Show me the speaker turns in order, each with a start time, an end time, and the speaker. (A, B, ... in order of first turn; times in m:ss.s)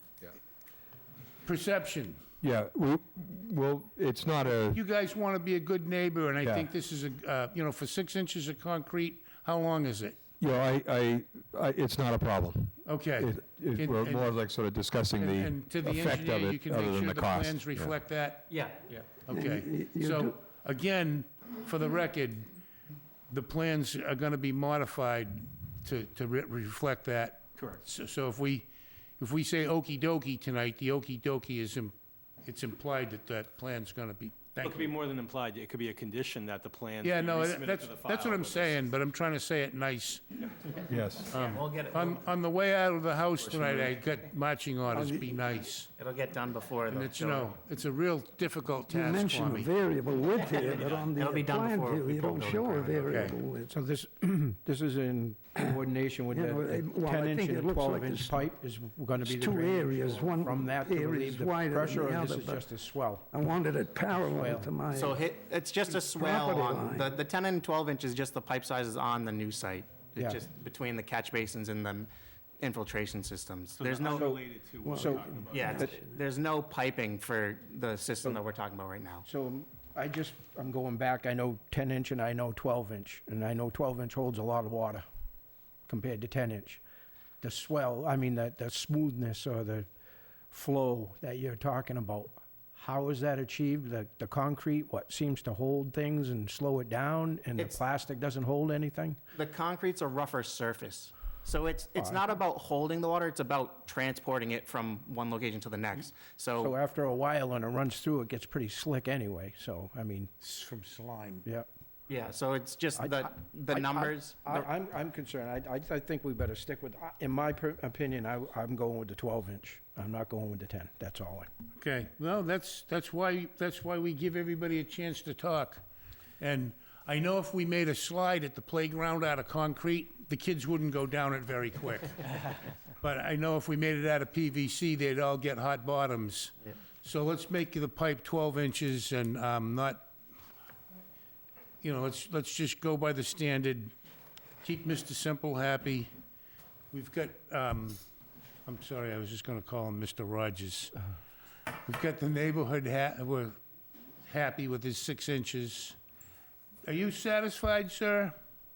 0:01.4-0:02.2 A
0:02.4-0:04.8 B
0:04.7-0:10.2 A
0:06.4-0:06.7 B
0:10.4-0:17.9 B
0:12.8-0:14.3 A
0:15.2-0:18.6 A
0:18.5-0:19.0 C
0:19.1-0:22.5 A
0:19.3-0:20.4 D
0:23.3-0:28.6 A
0:29.2-0:34.9 A
0:34.6-0:38.9 E
0:37.0-0:40.2 A
0:40.9-0:41.3 B
0:41.3-0:42.2 C
0:41.3-0:45.9 A
0:44.9-0:45.3 D
0:46.0-0:47.5 C
0:46.9-0:49.7 A
0:48.9-0:53.7 D
0:50.4-0:53.1 C
0:50.7-0:51.0 E
0:53.1-0:53.4 A
0:53.7-1:03.2 F
0:56.3-0:58.4 D
0:59.2-1:02.6 D
1:03.3-1:05.2 D
1:04.1-1:04.7 F
1:04.9-1:14.4 C
1:05.9-1:07.1 D
1:10.2-1:10.4 F
1:13.8-1:15.8 E
1:14.0-1:14.4 F
1:14.8-1:16.0 D
1:14.9-1:15.4 F
1:15.5-1:19.2 C
1:19.2-1:25.0 F
1:25.9-1:26.8 F
1:27.4-1:29.9 F
1:30.5-1:39.2 F
1:39.3-1:46.7 C
1:42.0-1:42.3 F
1:46.6-1:50.3 F
1:50.4-1:51.5 A
1:52.1-1:54.7 C
1:53.0-2:01.5 F
2:01.8-2:05.8 A
2:06.4-2:12.4 A
2:13.0-2:20.1 A
2:21.8-2:23.9 A
2:24.6-2:26.1 A
2:26.9-2:28.0 A
2:28.6-2:30.9 A
2:31.8-2:33.6 A
2:34.2-2:36.0 A
2:36.8-2:38.3 A